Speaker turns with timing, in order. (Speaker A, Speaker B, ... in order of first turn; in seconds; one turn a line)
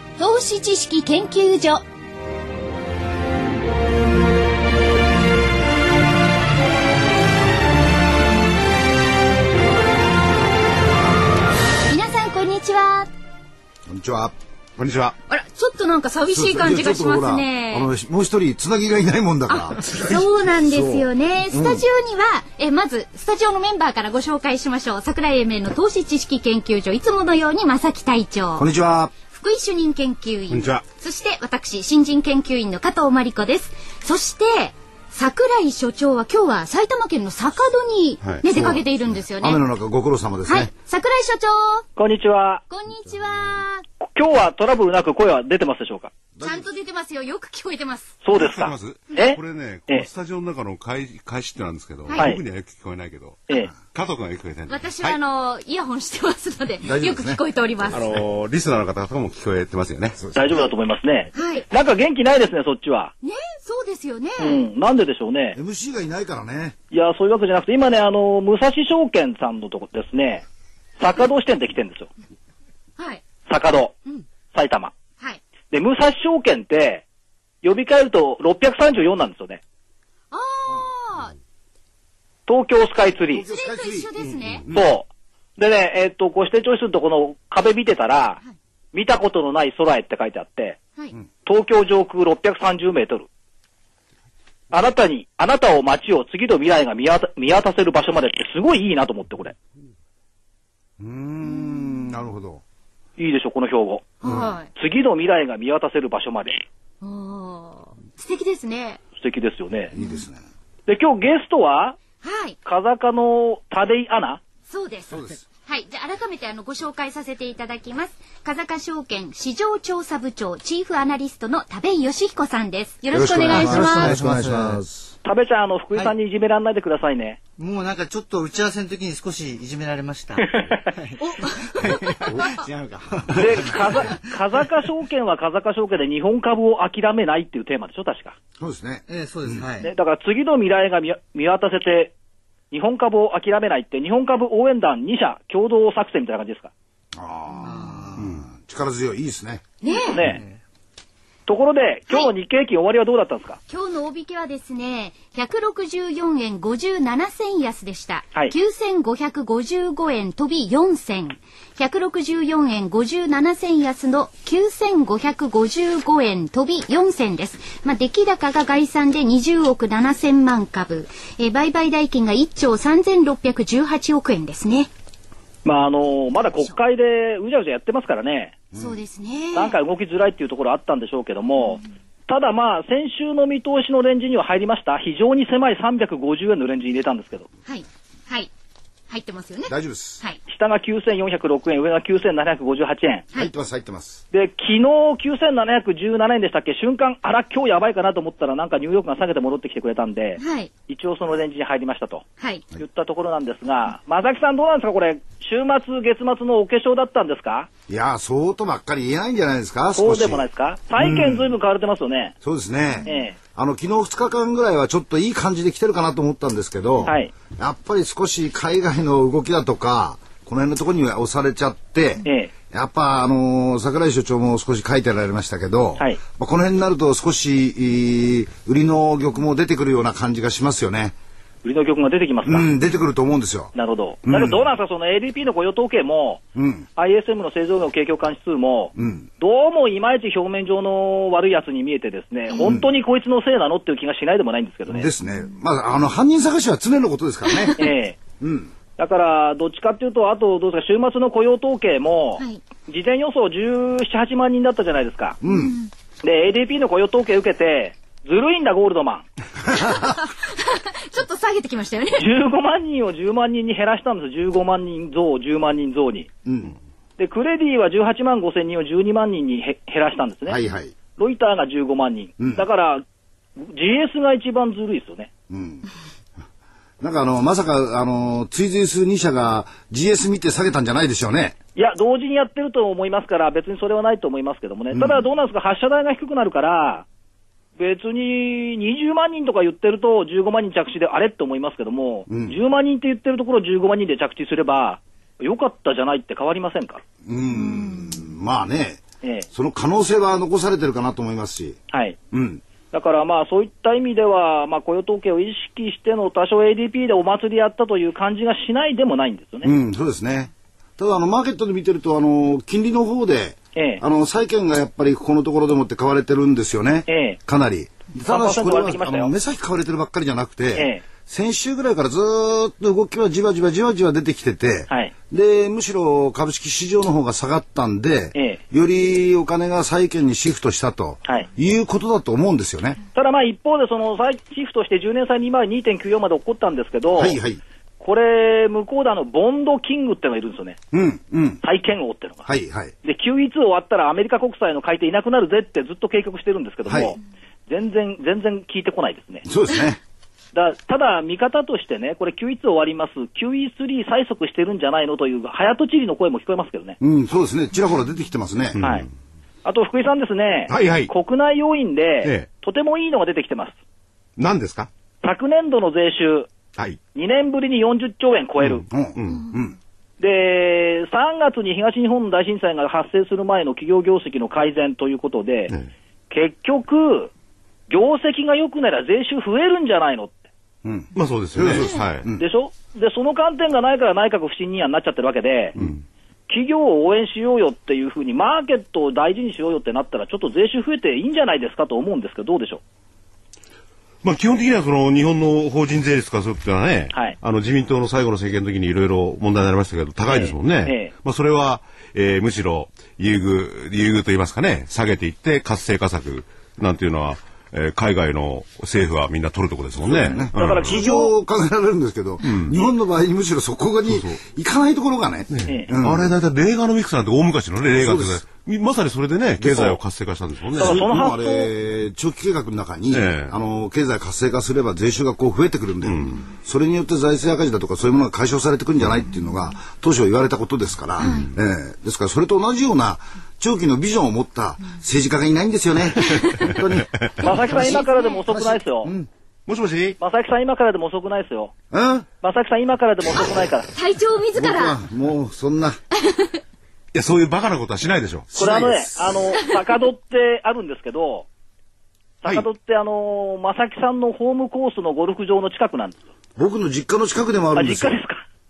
Speaker A: 0.2-1.8
Speaker A: 11.9-13.1
Speaker B: 13.9-14.3
Speaker C: 14.8-15.1
Speaker A: 15.3-17.9
Speaker B: 16.3-21.8
Speaker A: 19.5-28.7
Speaker B: 28.6-29.1
Speaker A: 29.2-39.6
Speaker C: 30.5-30.8
Speaker B: 38.5-40.7
Speaker A: 40.5-41.9
Speaker D: 42.0-42.6
Speaker A: 42.7-43.8
Speaker D: 44.0-46.1
Speaker B: 46.4-46.7
Speaker A: 46.4-48.1
Speaker D: 48.2-50.1
Speaker C: 48.3-55.2
Speaker D: 52.1-52.4
Speaker A: 54.7-58.1
Speaker B: 56.8-58.0
Speaker C: 57.9-60.2
Speaker B: 60.2-60.5
Speaker D: 60.3-63.1
Speaker A: 61.3-61.6
Speaker A: 63.2-64.6
Speaker D: 64.4-65.6
Speaker B: 65.5-66.8
Speaker D: 66.9-70.4
Speaker D: 71.0-72.1
Speaker D: 73.5-73.9
Speaker D: 74.5-74.9
Speaker D: 75.7-77.0
Speaker D: 77.6-79.6
Speaker A: 80.3-81.3
Speaker D: 82.5-83.4
Speaker B: 83.2-84.8
Speaker A: 83.5-84.6
Speaker D: 84.7-88.4
Speaker D: 88.9-90.8
Speaker D: 91.4-93.3
Speaker D: 94.7-99.5
Speaker B: 101.0-102.6
Speaker A: 101.6-101.9
Speaker D: 103.2-104.1
Speaker A: 104.2-104.7
Speaker B: 104.2-104.5
Speaker D: 104.8-106.6
Speaker A: 107.0-109.0
Speaker D: 109.2-109.9
Speaker B: 109.9-110.4
Speaker D: 110.9-112.0
Speaker A: 112.2-112.5
Speaker D: 112.6-114.4
Speaker A: 114.7-124.2
Speaker B: 115.1-115.4
Speaker B: 123.1-125.1
Speaker E: 123.5-124.8
Speaker D: 125.2-127.4
Speaker E: 127.6-134.1
Speaker D: 130.4-130.9
Speaker A: 131.2-132.6
Speaker B: 132.2-132.6
Speaker D: 133.3-138.3
Speaker B: 138.6-139.6
Speaker E: 139.1-139.9
Speaker D: 139.8-142.1
Speaker D: 142.7-146.7
Speaker B: 147.1-149.6
Speaker E: 147.6-148.4
Speaker A: 149.8-150.2
Speaker D: 150.1-150.4
Speaker E: 150.2-150.6
Speaker D: 151.5-153.6
Speaker A: 153.7-174.9
Speaker D: 175.6-178.5
Speaker B: 178.7-179.0
Speaker A: 178.8-179.8
Speaker D: 179.5-187.5
Speaker A: 187.7-188.5
Speaker A: 189.1-190.4
Speaker B: 189.7-190.2
Speaker D: 190.5-193.2
Speaker B: 193.3-194.2
Speaker D: 194.3-202.2
Speaker A: 200.4-200.7
Speaker D: 202.8-207.7
Speaker B: 207.9-210.4
Speaker D: 209.9-212.3
Speaker B: 211.0-211.5
Speaker B: 212.4-231.1
Speaker D: 213.1-213.3
Speaker D: 217.0-217.3
Speaker D: 222.2-222.5
Speaker D: 231.6-232.7
Speaker B: 232.4-233.7
Speaker D: 233.7-236.4
Speaker B: 234.2-234.6
Speaker B: 236.5-236.8
Speaker D: 236.9-245.1
Speaker B: 238.9-239.3
Speaker B: 244.9-247.8
Speaker A: 245.2-245.5
Speaker A: 247.5-247.8
Speaker D: 247.8-248.2
Speaker B: 248.4-248.7
Speaker D: 249.0-255.4
Speaker B: 255.4-255.7
Speaker A: 255.5-255.9
Speaker D: 256.2-259.2
Speaker A: 259.9-262.3
Speaker D: 262.1-266.3
Speaker B: 266.4-266.8
Speaker D: 267.2-270.6
Speaker B: 270.5-270.9
Speaker D: 271.2-273.0
Speaker B: 272.4-272.6
Speaker D: 273.6-275.3
Speaker B: 275.5-275.9
Speaker B: 277.0-281.6
Speaker D: 281.8-287.1
Speaker B: 284.9-285.2
Speaker D: 287.8-297.0
Speaker B: 292.3-292.6
Speaker B: 297.2-301.8
Speaker A: 297.5-298.3
Speaker D: 299.2-299.5
Speaker D: 301.9-302.2
Speaker B: 302.3-302.6
Speaker D: 302.9-309.7
Speaker B: 309.6-333.0
Speaker D: 313.7-314.0
Speaker D: 317.1-317.4
Speaker D: 318.2-319.3
Speaker D: 320.7-321.0
Speaker D: 328.3-328.6
Speaker D: 333.1-337.4
Speaker B: 337.2-337.6
Speaker D: 338.0-340.8
Speaker B: 340.9-341.6
Speaker D: 341.6-342.5
Speaker B: 342.5-342.9
Speaker D: 343.0-349.4
Speaker B: 346.9-347.1
Speaker B: 349.4-350.0
Speaker D: 350.5-357.0
Speaker B: 357.0-358.8
Speaker C: 358.8-359.0
Speaker D: 358.8-359.1
Speaker D: 359.6-363.8
Speaker C: 360.7-361.1
Speaker C: 364.4-364.9
Speaker D: 365.2-366.5
Speaker D: 367.1-368.8
Speaker B: 368.9-369.8
Speaker C: 369.1-369.5
Speaker D: 370.2-375.7
Speaker D: 376.3-377.3
Speaker D: 377.9-380.4
Speaker B: 380.8-382.4
Speaker C: 381.1-382.3
Speaker A: 381.7-382.0
Speaker D: 382.4-385.7
Speaker C: 385.8-386.0
Speaker D: 386.5-392.8
Speaker C: 394.2-411.1
Speaker D: 400.3-401.1
Speaker B: 410.0-416.3
Speaker D: 410.6-411.3
Speaker C: 412.4-412.8
Speaker C: 414.1-414.4
Speaker C: 415.5-421.1
Speaker B: 418.0-418.4
Speaker B: 419.6-420.0
Speaker B: 420.7-438.0
Speaker D: 420.8-421.7
Speaker C: 423.1-423.6
Speaker C: 426.0-426.4
Speaker A: 431.2-431.5
Speaker C: 431.2-431.5
Speaker A: 436.3-436.5
Speaker A: 437.4-438.4
Speaker D: 437.4-439.1
Speaker B: 438.5-439.3
Speaker C: 439.7-440.2
Speaker D: 440.2-441.7
Speaker B: 441.9-442.3
Speaker D: 442.4-443.9
Speaker A: 443.9-445.0
Speaker B: 444.5-446.0
Speaker A: 446.1-446.6
Speaker C: 447.1-448.5
Speaker B: 448.5-449.4
Speaker D: 448.6-451.4
Speaker D: 452.4-456.2
Speaker B: 456.6-458.2
Speaker D: 457.7-458.4